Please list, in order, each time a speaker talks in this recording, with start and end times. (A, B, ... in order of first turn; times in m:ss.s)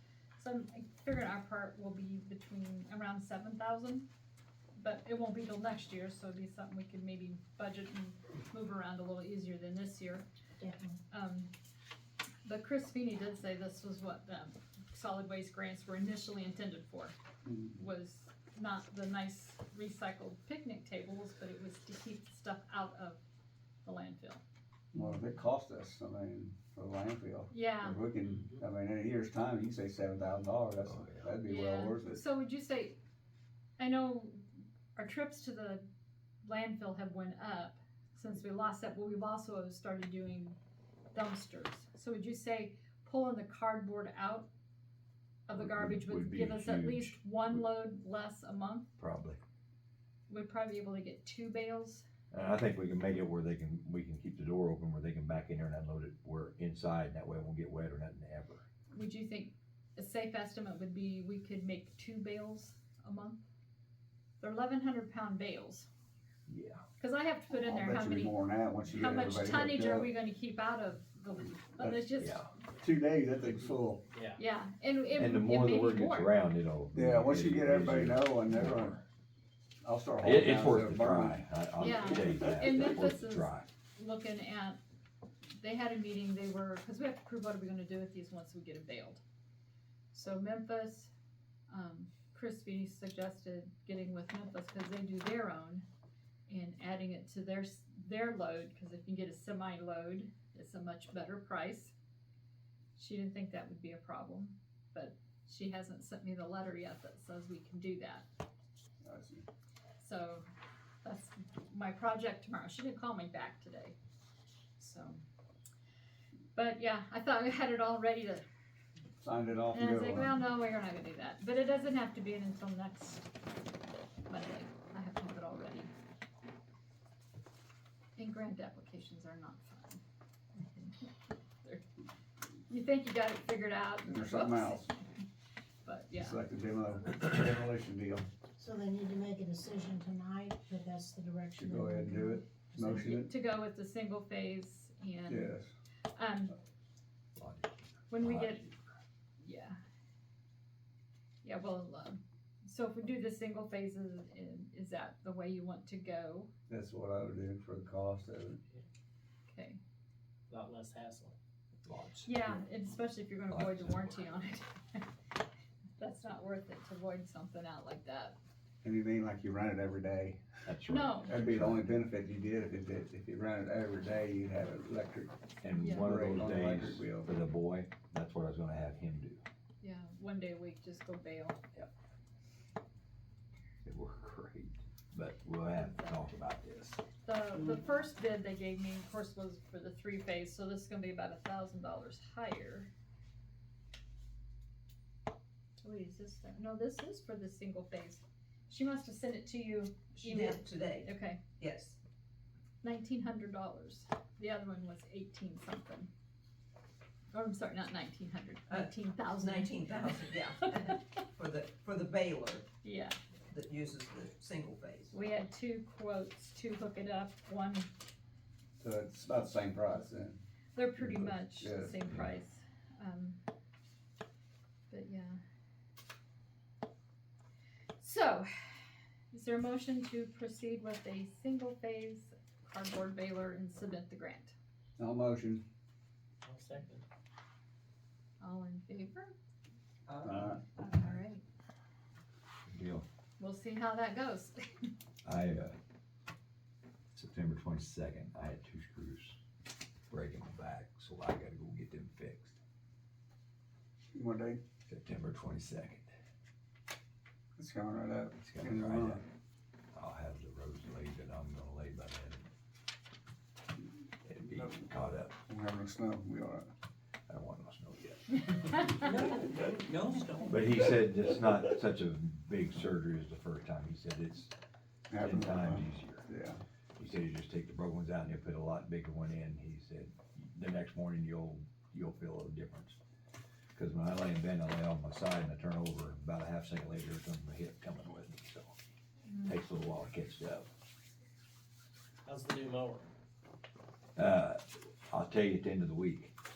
0:00.4-0:04.1 A
0:04.8-0:10.2 A
0:10.6-0:11.0 B
0:11.1-0:11.5 A
0:12.4-0:17.1 A
0:17.4-0:17.8 C
0:17.7-0:23.2 A
0:23.8-0:24.4 A
0:24.9-0:32.2 C
0:27.5-0:28.0 A
0:30.8-0:31.4 D
0:31.4-0:33.0 A
0:33.8-0:34.4 A
0:34.9-0:35.9 A
0:36.4-0:40.6 A
0:41.1-0:44.5 A
0:45.5-0:48.9 A
0:45.5-0:47.6 D
0:49.0-0:49.4 D
0:50.3-0:52.0 A
0:52.3-0:58.6 D
0:58.9-1:03.4 A
1:04.4-1:05.9 A
1:06.5-1:06.8 D
1:07.0-1:08.4 A
1:07.6-1:10.1 C
1:08.9-1:12.4 A
1:12.2-1:12.5 D
1:12.8-1:14.0 C
1:14.1-1:14.4 E
1:14.4-1:16.3 A
1:15.2-1:19.0 D
1:16.9-1:19.0 C
1:19.8-1:21.4 C
1:20.2-1:23.7 D
1:21.8-1:24.8 A
1:25.6-1:29.2 A
1:30.1-1:31.1 A
1:31.7-1:35.8 A
1:36.5-1:41.9 A
1:43.0-1:48.2 A
1:49.0-1:49.4 C
1:50.0-1:50.4 A
1:51.0-1:54.0 A
1:54.8-1:55.2 A
1:56.5-1:58.4 A
1:59.2-2:00.4 C
1:59.7-2:03.3 A
2:04.3-2:05.9 A
2:08.2-2:10.0 A
2:10.5-2:11.1 A
2:12.7-2:15.0 A
2:14.1-2:14.9 C
2:15.8-2:16.4 A
2:16.2-2:18.3 C
2:18.6-2:22.4 B
2:21.6-2:23.3 C
2:22.8-2:25.5 A
2:25.3-2:25.7 C
2:26.2-2:26.5 A
2:27.4-2:28.8 D
2:28.1-2:28.7 A
2:29.4-2:29.8 A
2:31.4-2:36.5 A
2:36.7-2:38.6 C
2:39.5-2:39.8 A
2:40.5-2:41.3 E
2:41.8-2:42.3 D
2:42.2-2:45.0 A
2:43.5-2:44.1 D
2:46.0-2:48.4 A
2:48.8-2:50.4 C
2:50.6-2:51.9 D
2:50.9-2:51.3 A
2:51.2-2:55.3 C
2:55.6-2:59.4 D
2:55.8-2:56.1 A
2:55.9-2:57.3 C
2:59.8-3:01.6 A
3:03.8-3:07.1 D
3:05.7-3:06.4 A
3:07.1-3:12.9 A
3:15.8-3:21.4 A
3:20.2-3:21.1 F
3:21.6-3:22.0 F
3:22.8-3:26.1 A
3:27.3-3:31.0 A
3:29.4-3:32.6 F
3:32.8-3:33.2 A
3:33.5-3:35.1 F
3:35.1-3:37.9 A
3:38.8-3:40.4 C
3:40.7-3:43.4 A
3:41.0-3:42.0 C
3:44.9-3:45.4 A
3:48.0-3:48.7 A
3:49.3-3:54.5 A
3:55.0-3:55.6 C
3:56.4-3:57.0 E
3:58.4-3:59.3 A
4:00.1-4:00.4 F
4:00.2-4:00.6 C
4:00.8-4:01.4 A
4:02.7-4:03.0 D
4:03.4-4:04.9 A
4:05.2-4:05.8 D
4:07.1-4:09.4 D
4:10.1-4:12.6 D
4:14.1-4:14.6 C
4:14.8-4:16.1 D
4:17.6-4:19.2 C
4:18.4-4:19.2 D
4:19.9-4:22.5 D
4:24.2-4:25.4 D
4:24.5-4:24.8 C
4:25.5-4:26.7 C
4:27.3-4:29.0 D
4:29.0-4:31.5 F
4:30.5-4:34.5 D
4:35.1-4:36.6 C
4:35.1-4:36.3 D
4:37.0-4:43.0 D
4:43.7-4:48.8 D
4:49.3-4:49.6 A
4:49.4-4:50.7 D
4:52.2-4:53.1 E
4:54.2-4:56.3 D